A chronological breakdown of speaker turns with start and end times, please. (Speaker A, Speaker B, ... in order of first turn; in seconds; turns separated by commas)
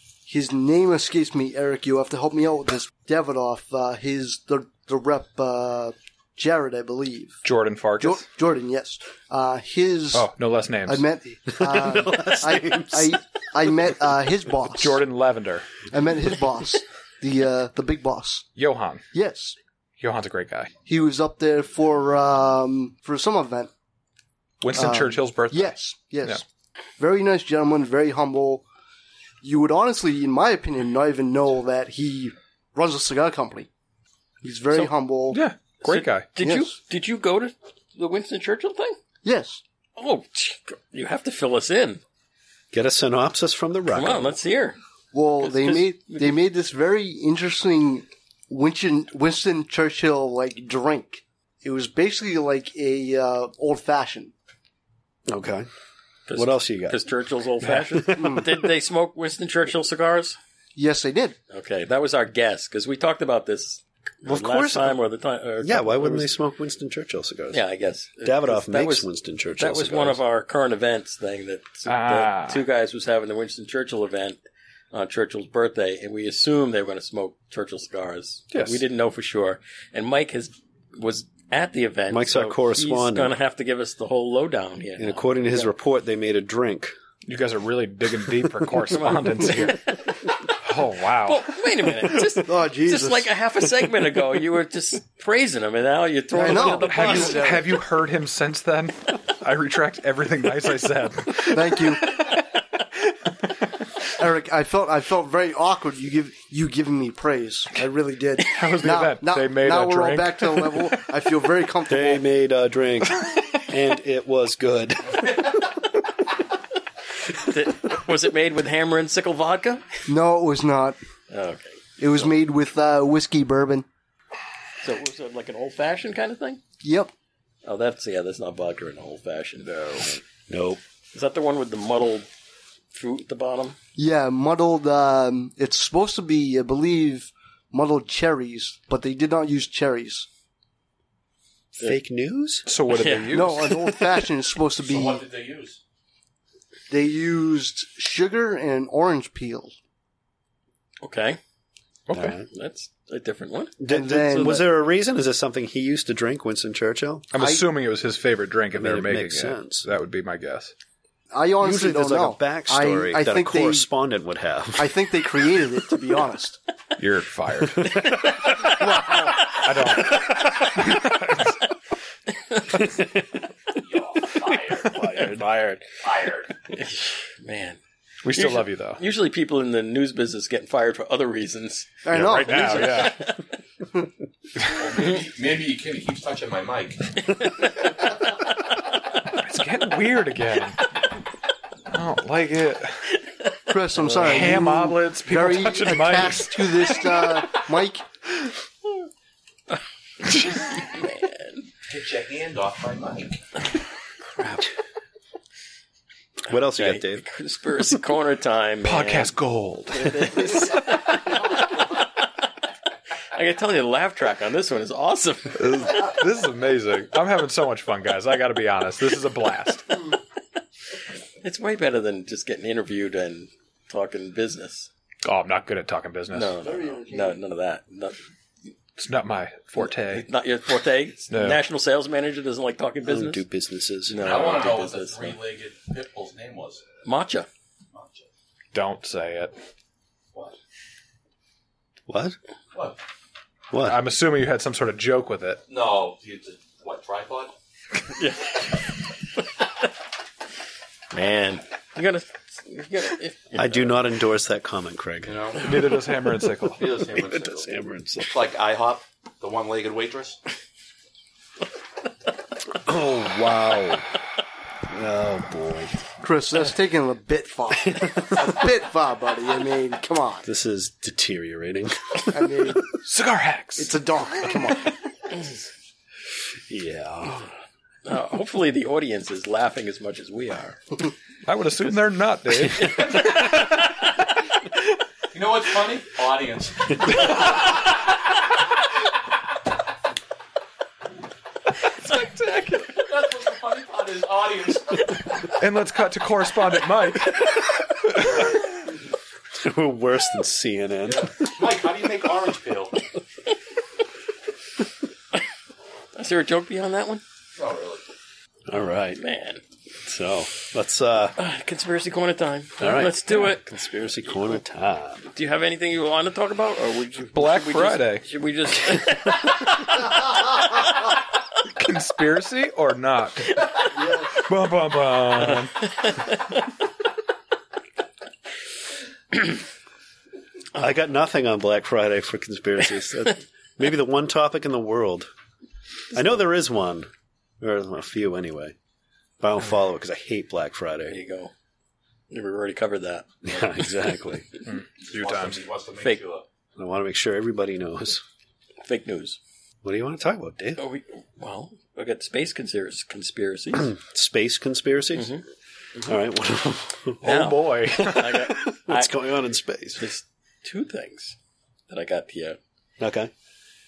Speaker A: 0.3-7.4, Speaker B: 7.4-8.2, Speaker A: 8.0-10.3, Speaker B: 10.1-11.0, Speaker A: 10.9-15.0, Speaker C: 11.5-13.2, Speaker B: 14.7-15.7, Speaker A: 15.9-18.4, Speaker B: 18.6-19.0, Speaker A: 19.1-19.6, Speaker B: 20.0-20.7, Speaker A: 20.9-23.7, Speaker B: 24.6-26.4, Speaker A: 24.7-26.4, Speaker A: 27.0-28.6, Speaker A: 29.4-33.7, Speaker A: 34.4-35.4, Speaker B: 35.3-36.3, Speaker D: 35.8-39.0, Speaker A: 36.4-36.7, Speaker A: 39.2-39.6, Speaker D: 40.0-42.0, Speaker C: 42.7-44.4, Speaker D: 43.9-44.8, Speaker A: 45.1-54.3, Speaker D: 45.4-46.3, Speaker C: 55.3-55.7, Speaker D: 56.3-60.4, Speaker C: 56.3-57.0, Speaker C: 57.6-58.6, Speaker A: 58.2-58.5, Speaker A: 60.8-61.4, Speaker D: 61.5-66.3, Speaker C: 64.2-65.0, Speaker C: 65.6-67.6, Speaker D: 67.5-74.4, Speaker C: 68.2-70.2, Speaker B: 71.9-72.6, Speaker D: 74.9-85.7, Speaker B: 78.5-78.8, Speaker C: 82.1-83.3, Speaker C: 85.0-86.9, Speaker B: 87.2-89.8, Speaker D: 89.0-90.5, Speaker B: 90.5-91.5, Speaker D: 91.2-97.6, Speaker A: 92.4-93.3, Speaker A: 96.3-97.8, Speaker B: 96.5-102.4, Speaker A: 101.5-102.2, Speaker A: 104.2-112.2, Speaker B: 108.4-110.9, Speaker C: 111.9-115.8, Speaker D: 117.4-120.0, Speaker A: 120.1-121.0, Speaker D: 121.3-121.8, Speaker A: 122.0-123.8, Speaker D: 124.8-126.6, Speaker A: 126.8-127.1, Speaker D: 127.6-130.2, Speaker C: 130.5-130.8, Speaker D: 131.1-132.3, Speaker D: 132.9-133.8, Speaker A: 134.0-140.3, Speaker C: 141.8-142.7, Speaker B: 142.7-143.7, Speaker D: 142.9-143.5, Speaker A: 143.3-145.2, Speaker C: 143.8-144.2, Speaker E: 144.8-145.8, Speaker A: 146.9-149.7, Speaker D: 151.0-151.4, Speaker B: 152.1-152.4, Speaker C: 152.1-152.5, Speaker D: 152.5-154.6, Speaker C: 153.8-157.3, Speaker A: 153.9-154.6, Speaker B: 157.3-160.7, Speaker A: 157.4-157.7, Speaker C: 158.7-159.9, Speaker A: 161.3-163.9, Speaker C: 161.6-164.9, Speaker A: 164.8-166.6, Speaker B: 167.0-168.2, Speaker A: 168.8-169.3, Speaker B: 169.4-171.6, Speaker D: 172.5-172.8, Speaker C: 172.8-173.1, Speaker E: 173.7-175.0, Speaker C: 174.8-175.6, Speaker E: 176.0-176.5, Speaker D: 176.7-177.8, Speaker B: 178.2-179.0, Speaker D: 178.3-182.0, Speaker A: 182.0-183.1, Speaker B: 182.1-183.2, Speaker D: 182.7-183.3, Speaker E: 184.6-187.1, Speaker D: 187.3-187.9, Speaker B: 189.3-190.8, Speaker B: 191.9-193.1, Speaker A: 193.7-198.0, Speaker D: 193.9-194.6, Speaker B: 194.1-197.1, Speaker D: 200.4-201.7, Speaker E: 201.9-203.4, Speaker D: 204.4-204.6, Speaker C: 206.5-207.2, Speaker D: 206.7-209.3, Speaker B: 208.8-211.1, Speaker D: 209.9-212.0, Speaker D: 213.3-215.8, Speaker B: 215.5-220.1, Speaker D: 221.4-224.9, Speaker B: 225.2-226.6, Speaker D: 226.3-228.2, Speaker A: 226.6-227.4, Speaker B: 229.0-230.3, Speaker D: 229.8-233.4, Speaker B: 231.3-231.6, Speaker C: 233.1-234.5, Speaker D: 234.1-235.4, Speaker E: 234.2-236.8, Speaker D: 237.0-237.5, Speaker E: 237.9-238.2, Speaker B: 238.7-239.5, Speaker C: 242.1-242.3, Speaker C: 243.7-244.0, Speaker B: 243.8-245.6, Speaker E: 245.7-247.5, Speaker D: 248.1-248.8, Speaker D: 251.1-254.1, Speaker C: 253.6-255.9, Speaker E: 255.2-255.8, Speaker B: 255.6-256.9, Speaker E: 256.8-260.4, Speaker C: 257.0-258.4, Speaker C: 262.7-264.1, Speaker C: 264.9-266.0, Speaker A: 266.2-270.5, Speaker C: 267.8-268.5, Speaker C: 270.4-272.7, Speaker A: 272.3-272.9, Speaker B: 272.9-274.0, Speaker A: 273.8-274.9, Speaker C: 276.7-277.4, Speaker D: 278.0-280.8, Speaker B: 281.4-283.9, Speaker D: 282.8-283.7, Speaker E: 285.3-287.5, Speaker D: 292.0-292.9, Speaker E: 293.0-295.1, Speaker B: 295.5-298.4, Speaker C: 299.6-301.7, Speaker E: 301.0-303.0, Speaker D: 306.1-307.2, Speaker E: 307.5-308.0, Speaker C: 308.7-309.2, Speaker D: 309.1-309.6, Speaker C: 310.0-311.4, Speaker D: 311.4-313.7, Speaker C: 312.8-315.3, Speaker D: 315.3-320.1, Speaker B: 317.3-318.3, Speaker B: 321.6-326.1, Speaker A: 324.0-324.3, Speaker D: 325.8-326.5, Speaker C: 330.7-335.3, Speaker C: 336.1-337.1, Speaker C: 337.6-338.7, Speaker C: 339.4-341.2, Speaker D: 341.1-341.5, Speaker D: 342.3-343.3, Speaker C: 343.4-344.5, Speaker B: 344.6-345.6, Speaker E: 345.0-346.4, Speaker C: 346.8-348.2, Speaker D: 348.8-349.4, Speaker C: 349.8-350.8, Speaker D: 350.8-353.9, Speaker C: 353.7-355.4, Speaker D: 355.1-355.4, Speaker C: 356.0-360.1, Speaker B: 357.2-358.4, Speaker D: 357.2-359.1, Speaker D: 360.0-361.4, Speaker D: 361.9-362.6, Speaker C: 363.0-363.3